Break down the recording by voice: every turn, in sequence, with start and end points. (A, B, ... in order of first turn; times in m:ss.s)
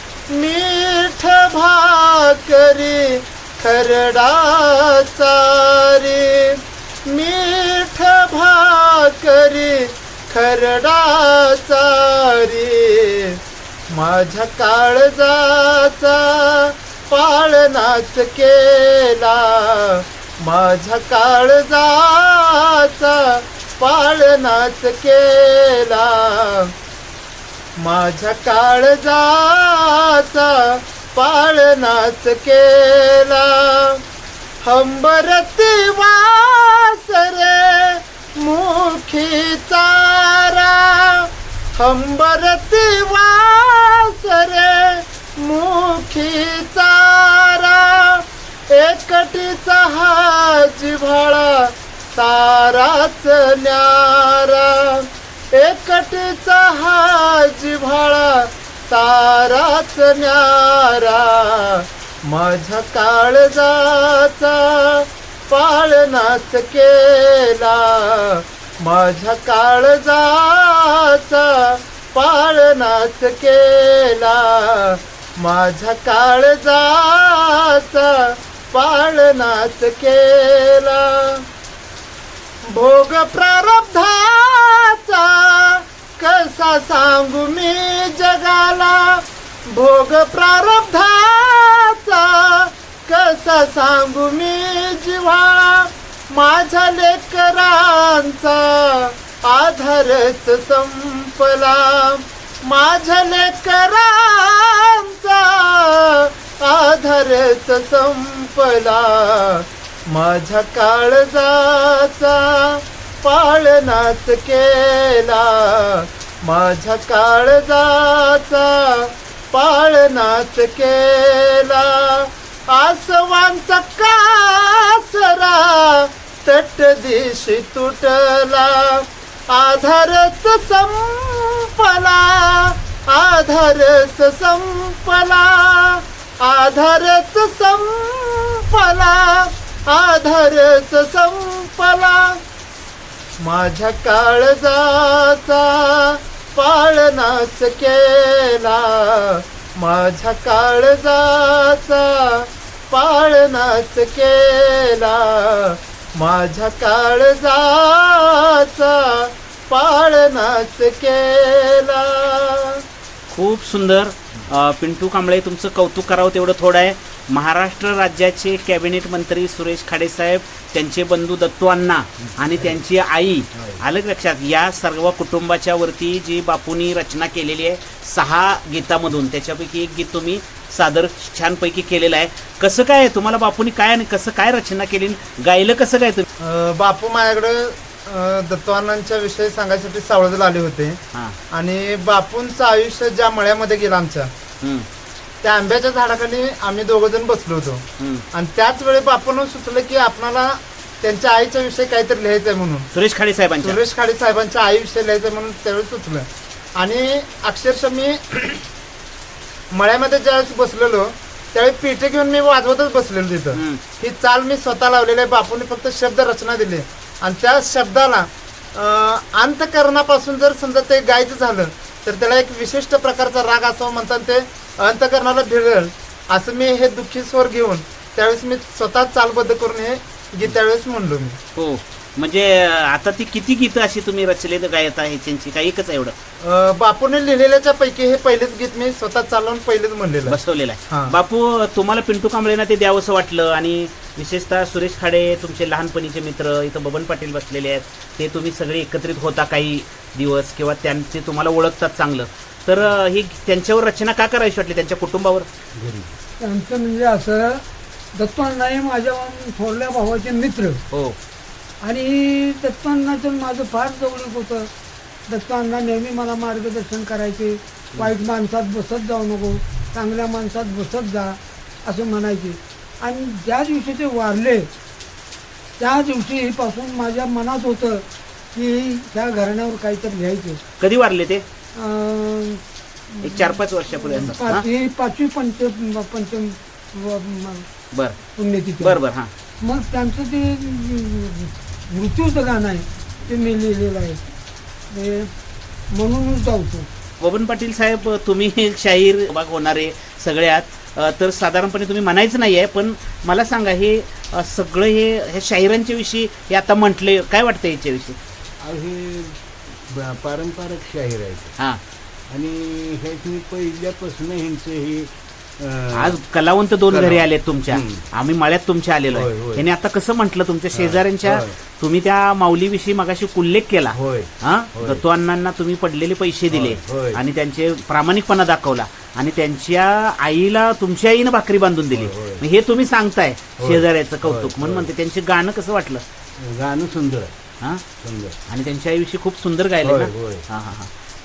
0:00.3-0:26.7 A
0:27.8-0:34.0 A
0:34.6-1:21.4 A
1:22.7-2:22.4 A
2:23.4-2:42.8 A
2:43.3-3:06.2 B
3:06.4-3:11.0 A
3:11.5-3:14.3 A
3:14.6-3:14.9 B
3:15.4-3:22.9 A
3:18.0-3:18.2 B
3:22.9-3:23.8 B
3:23.6-3:28.6 A
3:29.7-3:51.4 A
3:33.5-3:33.8 B
3:51.6-3:56.1 B
3:56.4-4:01.2 A
4:00.3-4:15.5 B
4:15.8-4:16.1 C
4:16.4-4:20.8 D
4:20.9-4:21.2 B
4:21.8-4:24.7 D
4:25.3-4:34.7 D
4:35.8-4:40.6 D
4:40.8-4:41.4 B
4:41.8-4:42.6 D
4:43.2-4:47.7 D
4:43.2-4:44.6 B
4:48.4-4:49.0 D
4:48.8-4:49.3 B
4:49.6-4:54.2 D
4:54.9-4:55.3 D
4:55.9-4:56.9 D
4:57.2-5:08.2 B
5:08.6-5:11.6 C
5:12.3-5:16.1 C
5:15.9-5:36.0 B
5:16.9-5:18.0 C
5:19.1-5:19.7 C
5:20.7-5:21.6 C
5:23.9-5:25.0 C
5:26.5-5:27.2 C
5:31.9-5:32.4 C
5:33.6-5:34.9 C
5:36.4-5:37.3 C
5:38.0-5:38.4 C
5:38.5-5:40.9 B
5:39.8-5:40.4 C